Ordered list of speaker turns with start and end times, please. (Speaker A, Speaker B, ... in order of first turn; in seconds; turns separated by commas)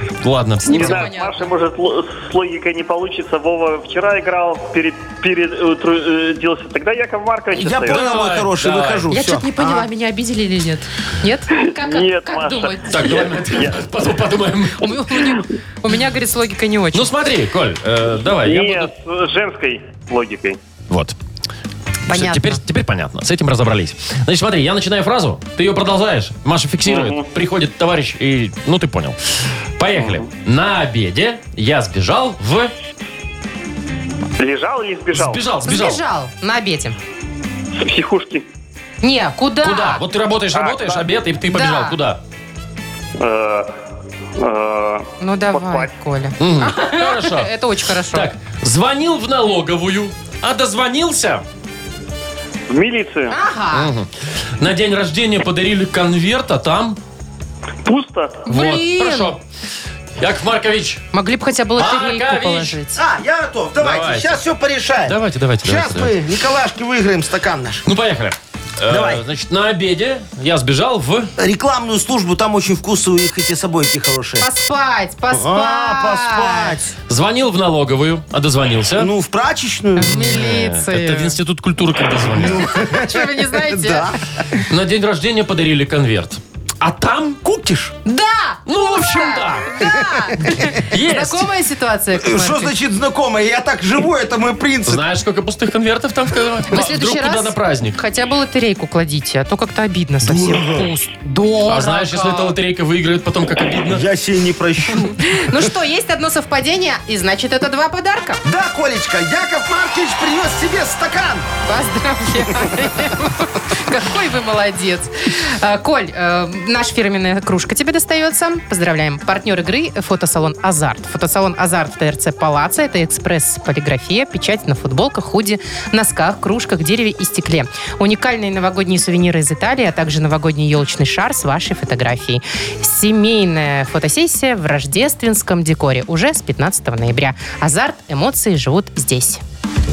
Speaker A: 0.2-1.1, Speaker B: 0.6-1.5, Speaker C: 0.7-8.1, Speaker D: 7.5-9.9, Speaker A: 7.9-9.1, Speaker B: 9.1-13.3, Speaker C: 11.8-13.9, Speaker A: 12.9-15.3, Speaker B: 14.8-17.1, Speaker A: 16.9-18.9, Speaker C: 18.4-20.6, Speaker A: 20.9-21.1, Speaker B: 22.1-22.6, Speaker A: 22.1-29.2, Speaker C: 26.9-27.2, Speaker A: 29.8-32.7, Speaker C: 34.4-35.5, Speaker A: 35.1-36.0, Speaker B: 35.6-37.0, Speaker C: 37.8-38.5, Speaker B: 39.0-40.0, Speaker A: 39.6-42.2, Speaker C: 40.5-41.1, Speaker B: 41.5-42.0, Speaker C: 43.2-43.8, Speaker C: 44.4-45.9, Speaker B: 45.2-48.3, Speaker A: 46.4-47.5, Speaker A: 48.1-51.5, Speaker C: 52.7-53.4, Speaker B: 53.3-53.9, Speaker A: 53.7-57.0, Speaker C: 57.9-58.5, Speaker B: 58.5-59.4, Speaker A: 58.5-59.4, Speaker A: 60.2-61.0, Speaker B: 61.1-63.0, Speaker A: 61.8-62.8, Speaker D: 63.0-67.8, Speaker A: 63.8-64.4, Speaker A: 65.0-66.1, Speaker A: 67.9-71.3, Speaker D: 68.9-69.2, Speaker D: 71.4-74.5, Speaker B: 74.4-76.8, Speaker D: 75.3-77.0, Speaker A: 77.1-79.1, Speaker D: 79.0-80.2, Speaker B: 80.0-81.4, Speaker A: 80.1-82.7, Speaker D: 82.2-84.6, Speaker B: 82.6-84.1, Speaker A: 84.7-87.4, Speaker D: 87.4-87.9, Speaker B: 88.1-92.7, Speaker A: 88.7-89.8, Speaker D: 89.8-90.6, Speaker A: 90.8-91.5, Speaker D: 92.2-95.0, Speaker A: 94.9-98.0, Speaker B: 96.7-102.6, Speaker D: 100.2-100.9, Speaker A: 101.7-104.0, Speaker D: 103.9-105.6, Speaker B: 105.0-108.4, Speaker D: 108.4-111.5, Speaker B: 111.7-139.4